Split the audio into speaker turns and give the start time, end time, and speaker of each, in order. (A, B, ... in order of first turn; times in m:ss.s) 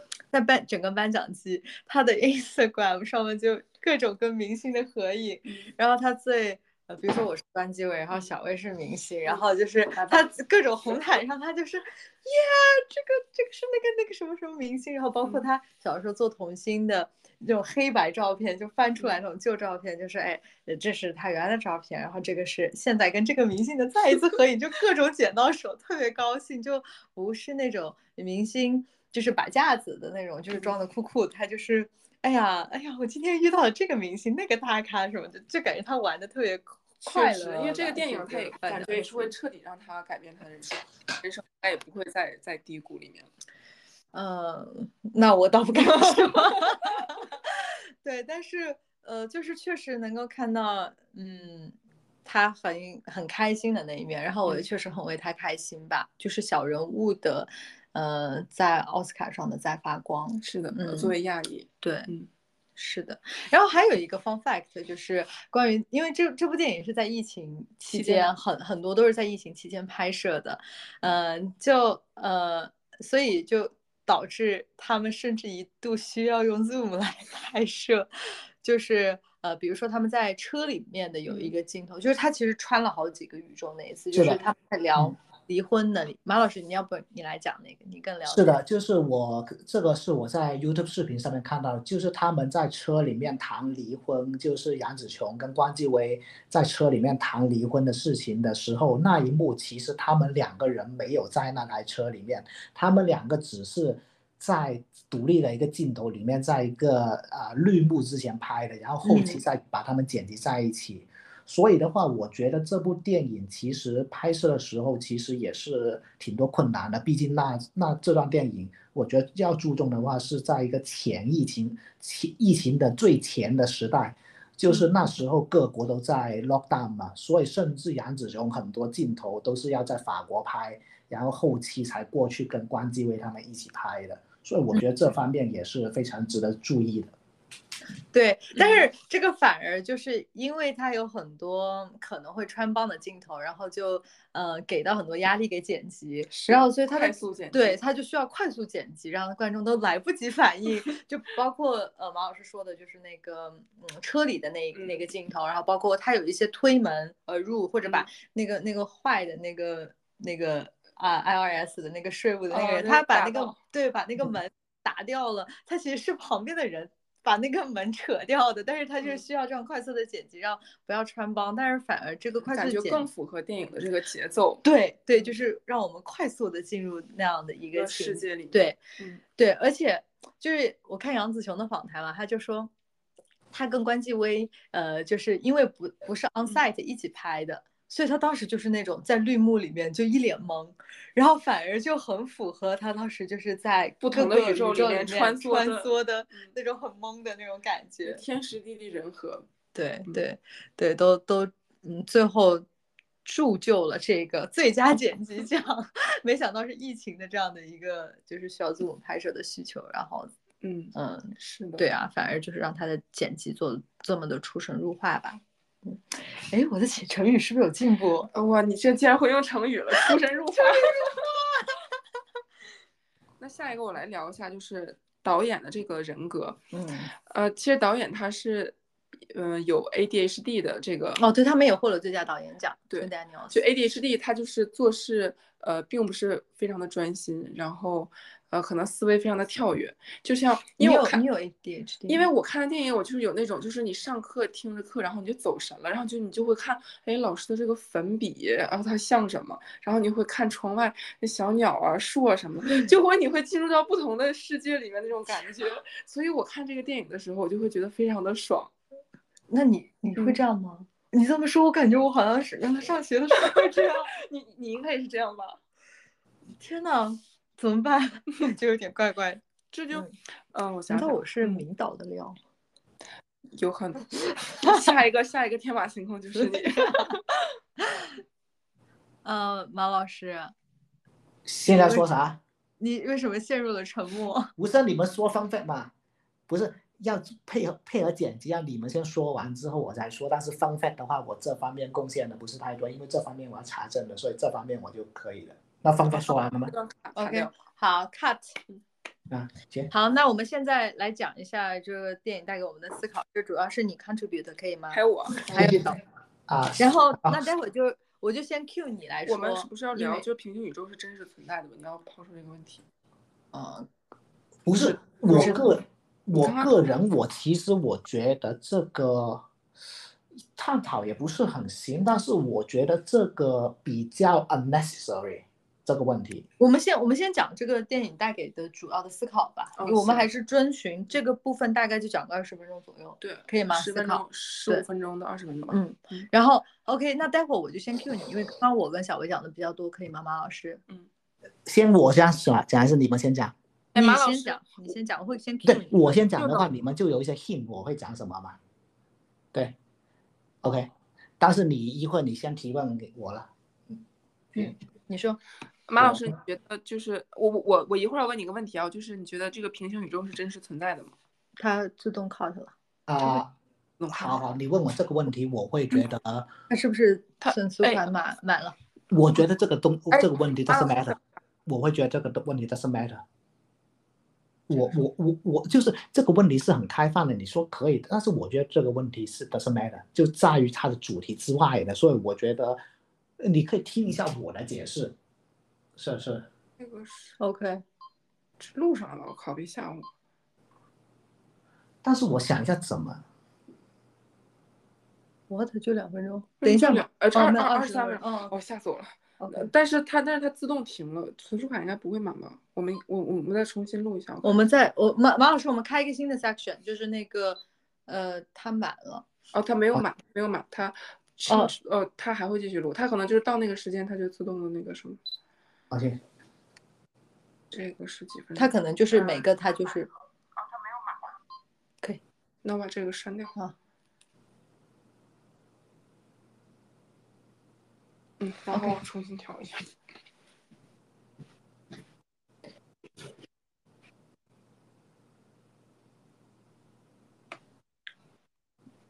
0:00.3-0:39.3 A
0:10.0-0:10.2 B
0:37.0-0:43.3 B
0:44.1-0:51.7 A
0:45.8-0:46.7 B
0:52.2-1:01.1 A
1:00.4-1:02.3 B
1:01.8-1:02.1 A
1:02.8-1:28.6 A
1:07.9-1:08.3 B
1:21.3-1:21.5 B
1:24.1-1:24.4 C
1:28.3-2:17.1 C
1:49.0-1:49.4 A
2:18.1-2:53.0 A
2:26.3-2:27.8 B
2:42.5-2:43.6 B
2:52.5-2:54.6 B
2:54.6-2:58.8 A
2:57.7-2:59.2 B
2:59.4-3:02.7 A
3:03.5-3:18.2 A
3:14.0-3:16.5 B
3:18.0-3:19.5 B
3:19.7-3:22.6 A
3:23.2-3:30.3 A
3:30.6-3:31.9 B
3:30.9-3:38.3 A
3:38.3-3:41.3 B
3:40.6-3:41.7 A
3:43.4-3:46.6 B
3:46.7-3:47.1 A
3:47.3-3:48.8 B
3:49.3-3:51.2 B
3:51.2-3:53.6 A
3:52.9-4:01.2 B
4:00.8-4:02.3 A
4:02.1-4:18.7 B
4:12.7-4:12.9 A
4:19.5-4:24.1 A
4:23.4-4:25.6 B
4:26.6-4:29.4 A
4:29.7-4:31.6 B
4:30.9-4:32.4 A
4:33.6-4:37.2 B
4:34.6-4:34.9 A
4:36.4-4:37.1 A
4:39.2-4:40.5 A
4:41.4-4:42.4 C
4:41.7-4:42.0 A
4:42.8-4:44.5 A
4:44.6-4:45.9 C
4:46.5-4:56.7 C
4:56.1-4:57.5 B
4:57.2-4:58.6 A
4:59.3-4:59.9 C
4:59.9-5:06.0 A
5:04.9-5:05.7 B
5:05.5-5:05.8 C
5:06.5-5:07.4 C
5:06.8-5:10.2 A
5:09.2-5:12.8 B
5:13.5-5:13.9 A
5:14.6-5:19.4 C
5:15.3-5:15.6 B
5:15.3-5:15.7 A
5:16.4-5:16.7 B
5:20.6-5:26.5 C
5:26.6-5:34.8 A
5:29.8-5:30.3 B
5:33.2-5:36.3 B
5:35.7-5:40.8 A
5:41.6-5:43.5 C
5:43.9-5:44.7 B
5:43.9-5:46.2 A
5:45.6-5:48.6 C
5:46.4-5:46.6 B
5:50.6-5:54.0 C
5:54.6-5:55.4 A
5:55.9-6:01.1 B
6:01.6-6:02.7 A
6:03.1-6:03.5 C
6:04.0-6:04.4 B
6:04.1-6:06.5 C
6:06.7-6:08.7 A
6:07.4-6:08.1 B
6:09.1-6:13.2 C
6:10.1-6:11.1 B
6:14.7-6:22.8 C
6:23.4-6:25.1 C
6:26.0-6:26.5 C
6:26.8-6:27.4 B
6:27.4-6:27.8 A
6:28.6-6:30.0 B
6:32.0-6:33.2 C
6:35.5-6:38.5 A
6:36.6-6:44.5 B
6:39.4-6:39.7 A
6:44.4-6:49.2 A
6:49.5-6:55.2 B
6:51.5-6:51.7 A
6:55.9-6:56.2 C
6:57.7-6:58.7 B
6:58.6-7:00.1 A
7:02.6-7:03.5 B
7:08.4-7:09.9 B
7:08.7-7:09.0 A